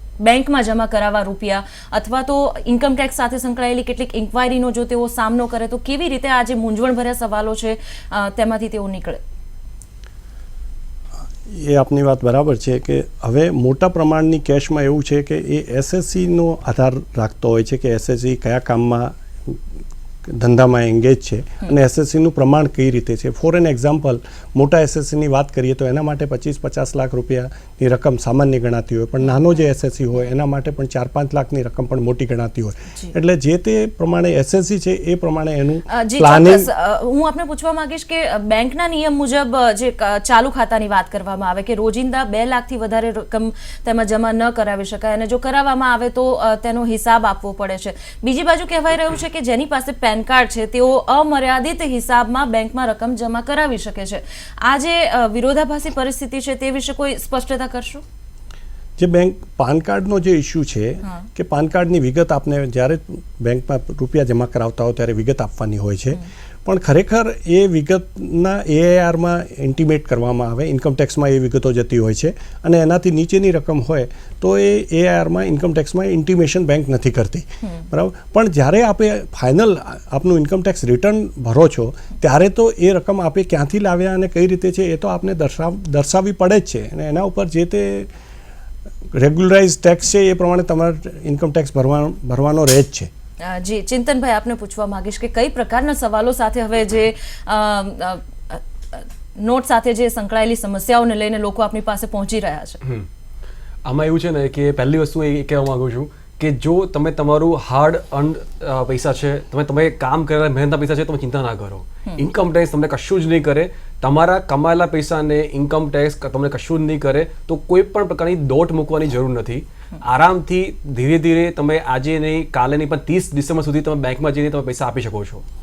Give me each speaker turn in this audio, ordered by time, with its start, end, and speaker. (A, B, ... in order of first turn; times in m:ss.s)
0:00.2-0:09.2 A
0:11.4-0:19.6 B
0:20.3-0:36.7 B
0:29.2-0:29.6 A
0:35.9-0:58.0 A
0:59.0-1:28.1 B
1:29.1-1:33.1 B
1:33.4-1:42.8 A
1:43.8-2:05.4 C